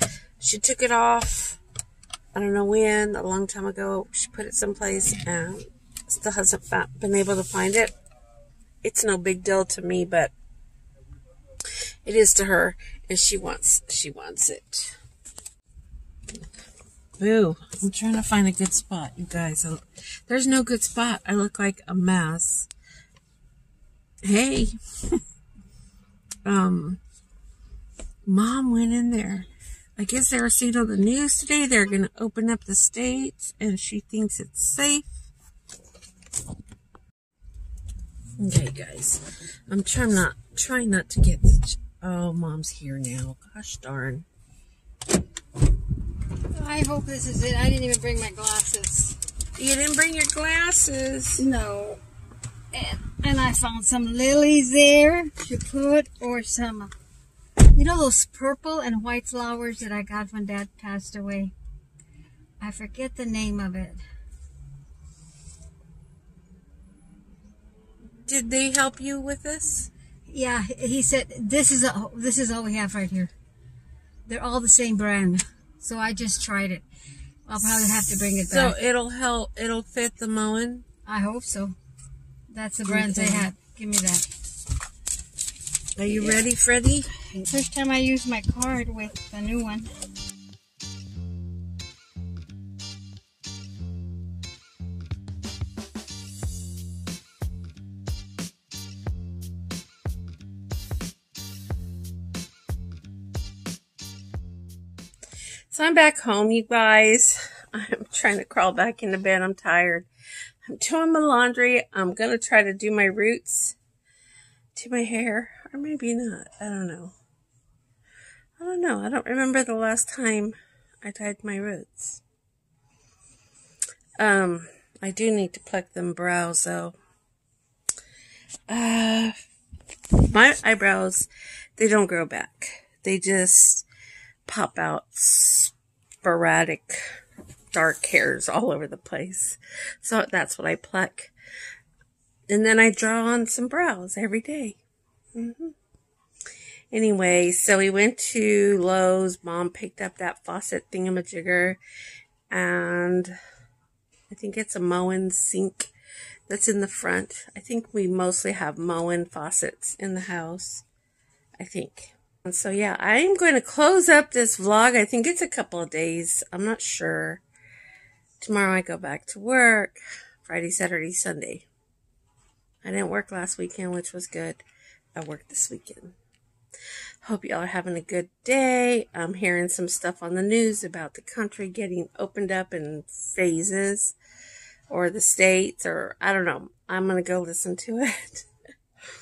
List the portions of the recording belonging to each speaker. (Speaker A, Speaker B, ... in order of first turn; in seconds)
Speaker A: 0.4-1.6, 2.3-7.9, 8.8-10.3, 12.1-15.0, 17.2-22.7, 24.2-25.2, 26.4-27.0, 28.3-35.1, 38.4-44.3, 49.6-51.4, 68.3-69.9, 78.1-80.9, 82.9-83.5, 86.0-87.1, 105.7-110.1, 110.7-113.8, 114.8-117.2, 118.6-122.2, 124.2-126.9, 128.7-129.3, 130.2-133.9, 134.5-137.0, 137.7-141.3, 142.5-144.8, 145.3-145.8, 146.9-151.8, 152.5-153.3, 154.3-155.9, 156.5-160.8, 161.6-167.4, 168.4-171.7, 172.8-174.6, 175.2-176.2, 177.2-184.2, 184.9-188.5
Speaker B: 46.5-49.2, 51.4-52.0, 52.7-56.9, 57.7-61.5, 62.6-64.0, 70.3-73.3, 74.3-76.8, 77.5-78.8, 81.1-81.8, 82.5-84.3, 86.1-86.4, 87.2-89.9